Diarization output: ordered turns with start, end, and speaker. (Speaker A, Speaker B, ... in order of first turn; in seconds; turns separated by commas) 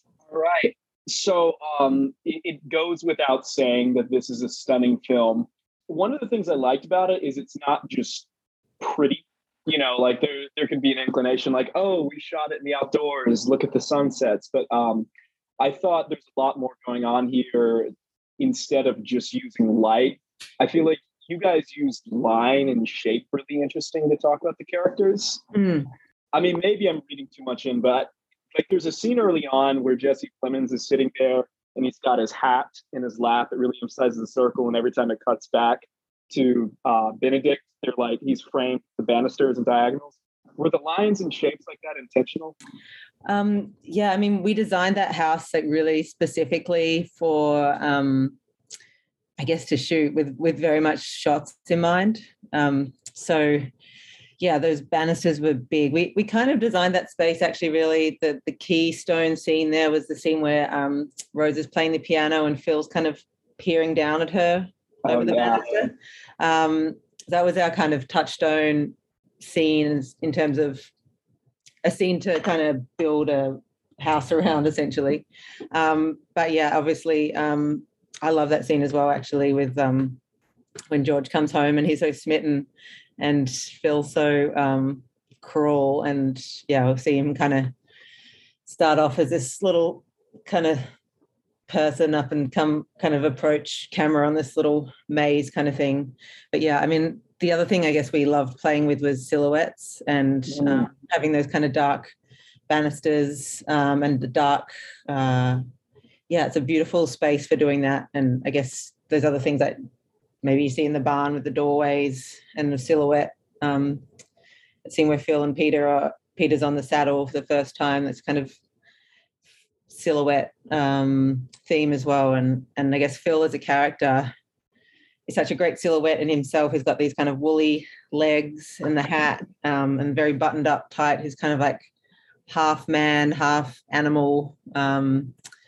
Speaker A: 0.3-8.3, Speaker A: 8.8-15.1, Speaker A: 15.6-25.4, Speaker B: 25.5-25.9, Speaker A: 26.3-42.6, Speaker B: 43.3-48.4, Speaker B: 49.4-53.7, Speaker B: 54.4-70.9, Speaker A: 65.0-65.7, Speaker B: 71.8-80.2, Speaker B: 80.9-82.7, Speaker B: 83.2-87.7, Speaker B: 88.7-90.9, Speaker B: 91.7-102.1, Speaker A: 100.5-100.9, Speaker B: 102.7-105.6, Speaker B: 106.3-109.8, Speaker B: 110.4-114.0, Speaker B: 114.8-118.6, Speaker B: 119.9-124.3, Speaker B: 125.3-131.9, Speaker B: 132.5-135.3